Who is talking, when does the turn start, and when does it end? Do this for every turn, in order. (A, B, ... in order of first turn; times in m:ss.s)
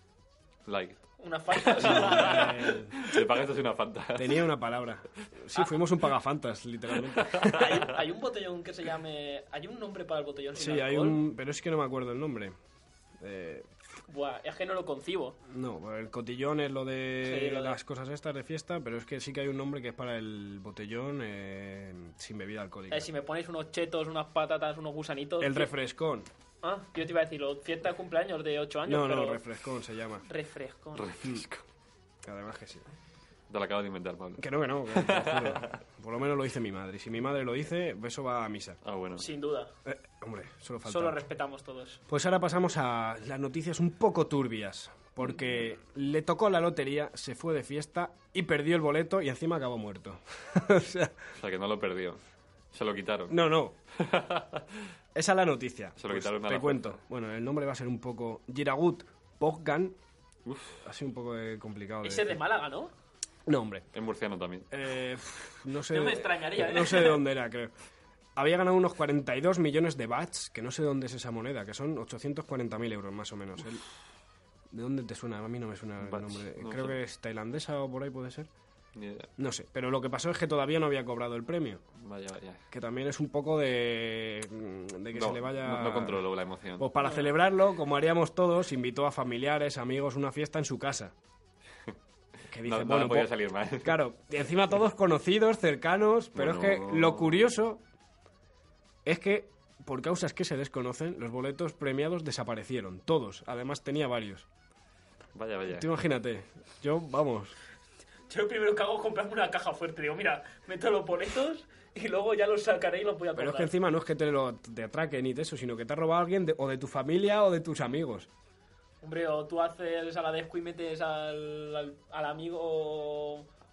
0:00.7-0:04.4 A
0:01.2-0:02.6 B
0:01.8-0:03.0 C
0:04.1-0:07.9 C
0:07.5-0:11.2 B
0:10.5-0:12.5 C
0:13.2-0:13.7 C
0:14.1-0:15.4 B
0:15.5-0:23.1 C
0:17.2-0:17.8 B
0:22.9-0:25.7 B
0:25.4-0:26.3 C
0:26.6-0:29.4 B
0:28.8-0:30.2 C
0:30.2-0:31.1 B
0:30.9-0:31.6 A
0:32.2-0:32.8 C
0:33.5-0:35.7 A
0:34.4-0:38.8 C
0:38.8-0:39.3 A
0:39.2-0:39.7 B
0:39.8-0:41.2 C
0:40.8-0:42.0 B
0:42.1-0:51.2 C
0:51.4-0:52.2 A
0:52.7-0:53.4 A
0:53.3-0:53.7 C
0:53.9-0:54.8 A
0:55.1-1:00.0 C
0:56.0-0:57.0 A
1:00.4-1:00.8 A
1:00.8-1:02.4 C
1:02.0-1:02.9 B
1:03.4-1:03.8 C
1:03.9-1:04.7 A
1:04.7-1:07.7 C
1:05.9-1:07.2 B
1:08.4-1:13.8 C
1:14.7-1:18.5 C
1:16.0-1:17.0 A
1:18.9-1:19.3 A
1:19.4-1:21.8 C
1:22.0-1:22.6 A
1:22.7-1:26.2 C
1:25.1-1:26.9 A
1:26.8-1:31.1 C
1:27.0-1:27.3 B
1:32.5-1:37.8 C
1:32.6-1:34.0 A
1:36.4-1:37.4 A
1:39.0-1:44.5 C
1:45.3-1:45.9 A
1:45.6-1:47.5 C
1:48.3-1:53.7 B
1:53.4-1:58.3 C
1:59.0-2:03.4 B